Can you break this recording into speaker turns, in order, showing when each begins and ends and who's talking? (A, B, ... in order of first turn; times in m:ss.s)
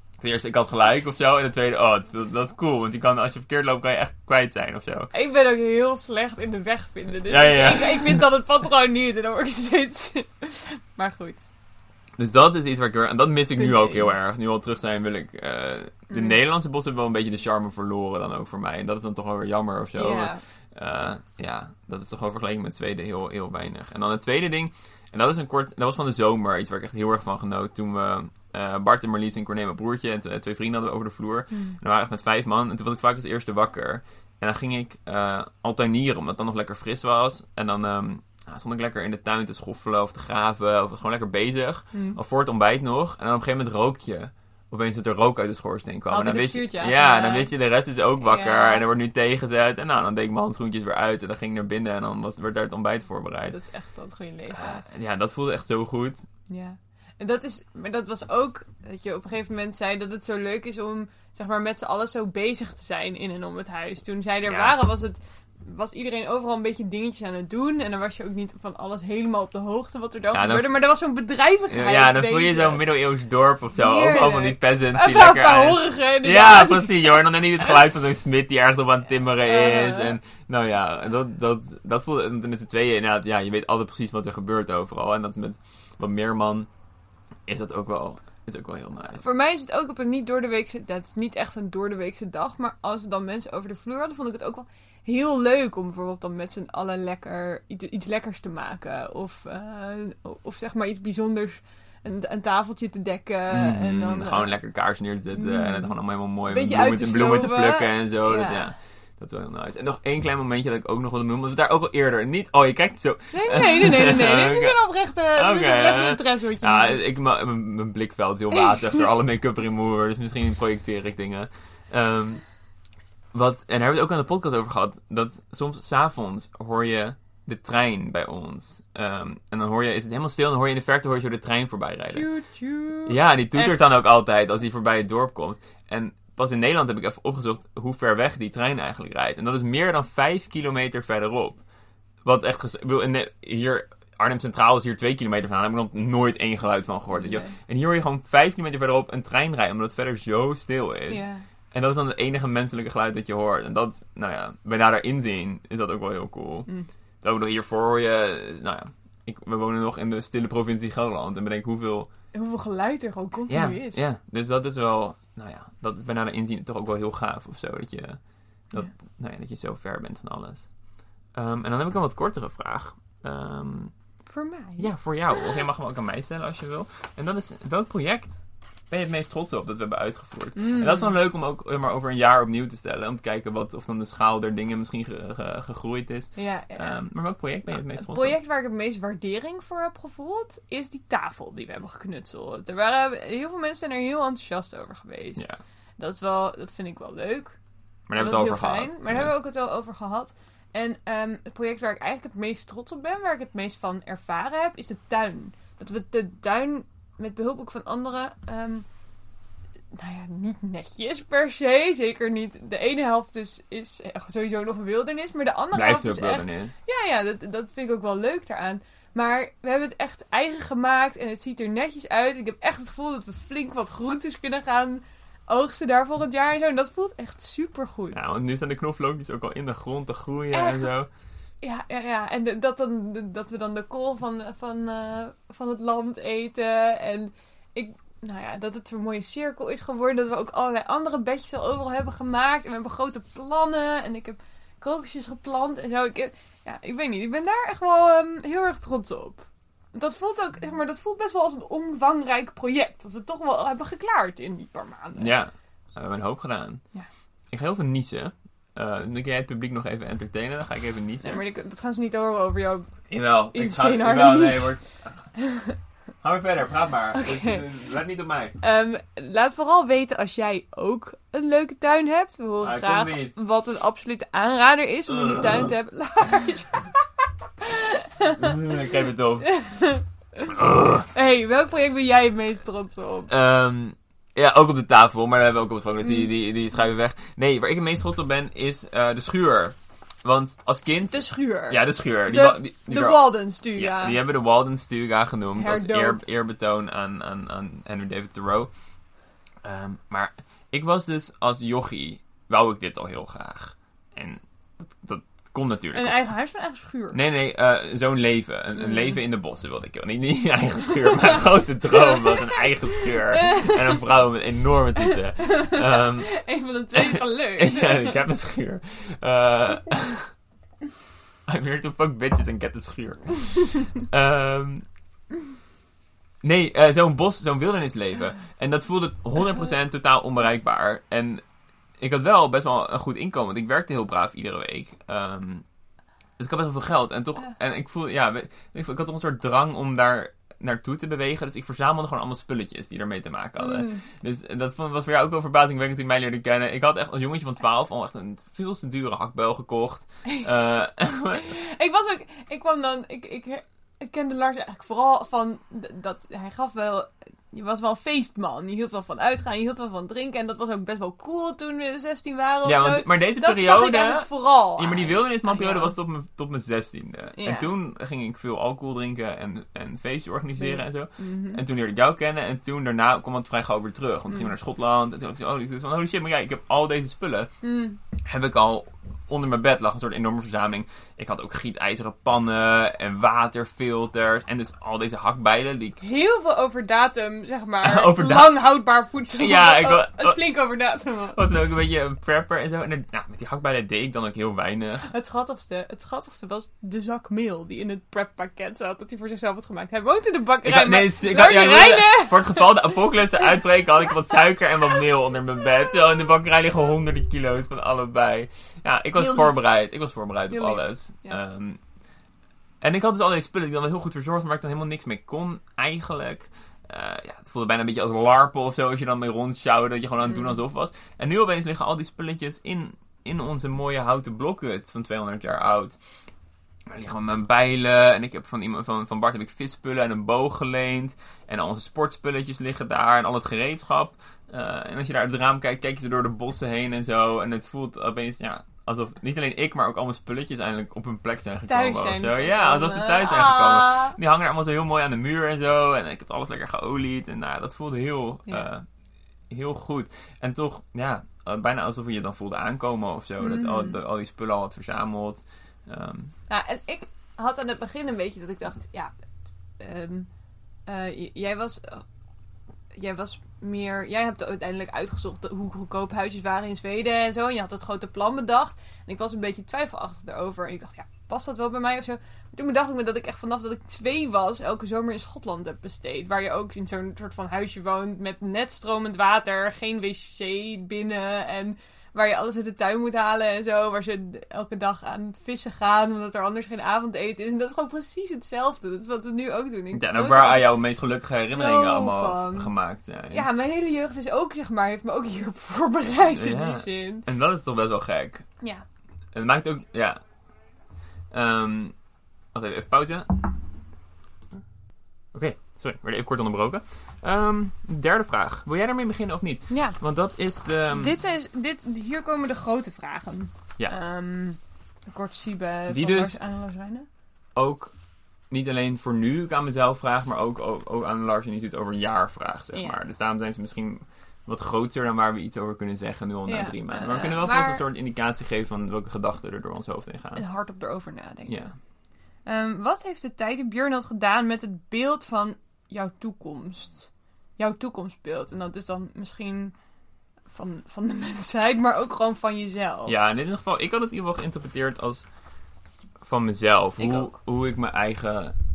0:00.2-0:05.1 A
0:05.1-0:11.5 B
0:07.3-0:08.2 A
0:12.2-0:53.6 A
0:13.6-0:14.1 B
0:16.1-0:16.4 B
0:20.0-0:20.4 B
0:31.5-0:31.8 B
0:41.9-0:42.2 B
0:46.1-0:47.5 B
0:48.2-0:48.8 B
0:53.5-0:54.8 B
0:54.5-0:56.2 A
0:56.5-1:12.9 B
1:04.5-1:04.7 A
1:10.3-1:10.7 A
1:11.7-1:26.7 A
1:13.8-1:17.2 B
1:19.4-1:20.2 B
1:27.4-1:29.2 A
1:29.2-1:44.5 B
1:43.5-1:54.7 A
1:45.3-1:48.7 B
1:53.3-1:57.0 B
1:55.3-2:02.4 A
2:03.3-2:12.3 A
2:12.1-2:13.9 B
2:13.1-2:21.6 A
2:22.2-2:36.7 A
2:27.1-2:27.6 B
2:31.1-2:31.4 B
2:37.2-2:42.1 A
2:42.3-2:44.0 B
2:43.5-2:50.7 A
2:51.3-2:53.9 A
2:54.3-2:54.9 B
2:54.8-3:08.4 A
3:00.6-3:01.2 B
3:06.4-3:07.0 B
3:08.0-3:15.4 B
3:16.0-3:17.6 B
3:18.1-3:19.3 A
3:18.2-3:28.9 B
3:29.9-3:48.2 B
3:35.7-3:36.7 A
3:48.1-3:51.1 A
3:50.5-3:51.0 B
3:51.6-4:15.3 B
4:15.2-4:16.8 A
4:17.5-4:21.4 A
4:21.2-4:24.8 B
4:23.1-4:25.4 A
4:25.4-4:25.8 B
4:26.2-4:28.6 A
4:27.1-4:27.6 B
4:28.6-4:37.0 B
4:32.6-4:33.3 A
4:35.1-4:35.7 A
4:37.6-4:38.6 B
4:38.4-4:39.6 A
4:39.4-4:40.5 B
4:40.5-4:41.1 A
4:41.1-4:43.3 B
4:43.3-4:58.7 A
4:51.1-4:54.2 B
4:55.6-4:56.3 B
4:59.6-5:06.2 A
5:05.9-5:07.2 B
5:07.1-5:16.3 A
5:08.8-5:09.1 B
5:11.9-5:14.0 B
5:15.5-5:18.2 B
5:16.9-5:20.3 A
5:21.4-5:24.8 A
5:26.4-5:31.4 A
5:32.0-5:35.6 A
5:36.4-5:51.5 A
5:43.6-5:44.1 B
5:51.3-6:05.9 B
6:02.6-6:17.5 A
6:07.4-6:07.7 B
6:10.6-6:11.6 B
6:17.6-6:18.0 B
6:18.2-6:26.0 A
6:26.0-6:31.4 B
6:27.8-6:28.6 A
6:29.4-6:30.4 A
6:31.3-6:35.1 A
6:35.1-6:43.0 B
6:40.6-6:51.8 A
6:49.2-6:49.6 B
6:50.5-6:51.4 B
6:52.8-7:06.0 A
7:00.3-7:00.6 B
7:06.9-7:28.8 A
7:21.7-7:24.2 B
7:29.5-7:36.3 A
7:33.4-7:34.0 B
7:36.5-7:39.1 B
7:39.8-7:40.3 B
7:40.8-7:42.0 B
7:42.9-8:10.7 B
8:09.9-8:13.4 A
8:11.3-8:12.7 B
8:13.3-8:17.2 B
8:16.4-8:18.5 A
8:19.3-8:20.2 A
8:21.3-8:22.0 A
8:22.5-8:23.5 A
8:25.3-8:31.2 A
8:29.7-8:30.0 B
8:30.9-8:37.1 B
8:35.9-8:36.4 A
8:37.6-8:37.9 A
8:38.5-8:50.5 A
8:46.4-8:47.8 B
8:50.4-8:51.8 B
8:51.5-8:51.8 A
8:52.4-8:59.8 B
9:00.5-9:03.1 B
9:03.1-9:05.3 A
9:06.2-9:08.6 A
9:07.0-9:07.4 B